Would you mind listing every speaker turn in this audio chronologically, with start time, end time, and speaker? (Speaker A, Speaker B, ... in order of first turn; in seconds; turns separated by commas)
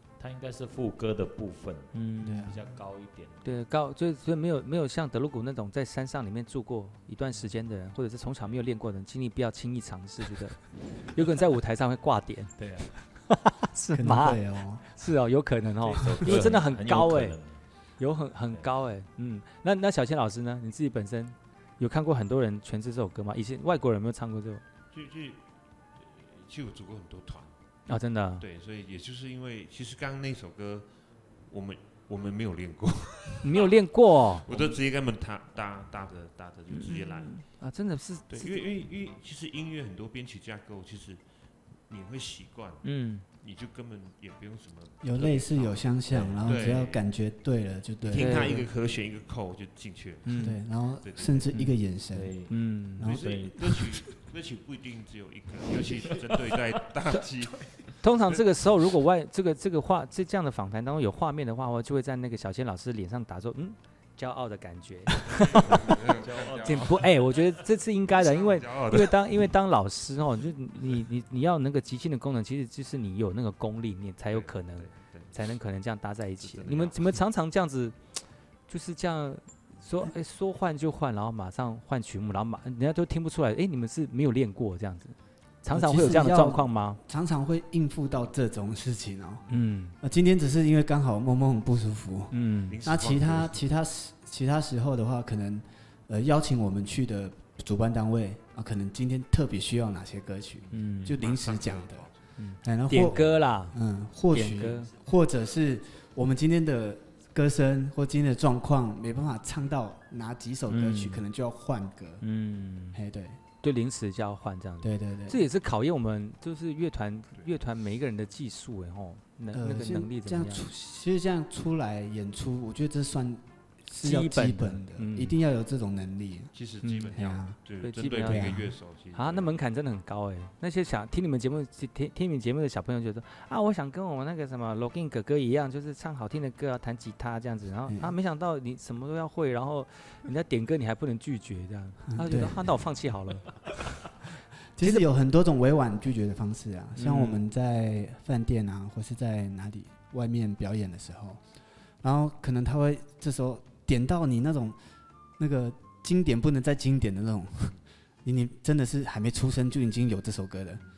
Speaker A: 0.2-1.9, Speaker B: 1.9-2.5, Speaker C: 2.2-2.6, Speaker A: 2.4-3.6, Speaker B: 3.4-17.4, Speaker A: 12.6-12.9, Speaker C: 13.9-14.8, Speaker A: 15.8-17.6, Speaker B: 18.0-24.6, Speaker D: 24.9-25.4, Speaker D: 26.0-27.5, Speaker B: 27.9-28.4, Speaker D: 28.4-30.9, Speaker D: 31.5-33.8, Speaker B: 33.4-34.5, Speaker D: 34.4-37.4, Speaker B: 36.7-38.6, Speaker D: 38.3-41.2, Speaker D: 41.9-42.8, Speaker B: 42.8-43.2, Speaker D: 43.4-47.0, Speaker C: 45.0-48.6, Speaker A: 46.1-47.0, Speaker D: 48.0-51.5, Speaker B: 48.1-48.7, Speaker B: 50.2-50.6, Speaker C: 50.4-52.3, Speaker A: 52.1-52.5, Speaker B: 52.5-53.1, Speaker C: 53.0-54.0, Speaker D: 53.0-58.0, Speaker A: 53.1-53.6, Speaker A: 55.9-56.4, Speaker B: 58.0-65.9, Speaker D: 65.2-67.0, Speaker A: 66.0-67.0, Speaker B: 66.6-78.0, Speaker D: 68.1-69.3, Speaker D: 74.3-75.4, Speaker D: 76.4-77.2, Speaker B: 78.7-87.0, Speaker C: 85.7-89.5, Speaker B: 89.5-89.9, Speaker C: 90.0-102.1, Speaker B: 92.3-92.8, Speaker D: 92.7-93.6, Speaker B: 100.7-101.2, Speaker D: 101.1-102.2, Speaker B: 102.4-103.8, Speaker C: 102.6-112.2, Speaker B: 104.3-104.9, Speaker B: 110.7-111.2, Speaker B: 112.2-113.0, Speaker C: 112.9-113.4, Speaker B: 113.6-120.7, Speaker C: 114.8-115.4, Speaker C: 119.5-126.5, Speaker B: 124.0-125.3, Speaker D: 126.5-129.6, Speaker B: 126.8-127.1, Speaker C: 127.1-127.6, Speaker B: 127.8-128.6, Speaker C: 128.2-128.7, Speaker B: 129.1-143.7, Speaker C: 137.9-138.1, Speaker C: 142.1-142.7, Speaker C: 144.8-151.4, Speaker B: 146.9-147.4, Speaker C: 152.0-154.8, Speaker C: 155.4-160.8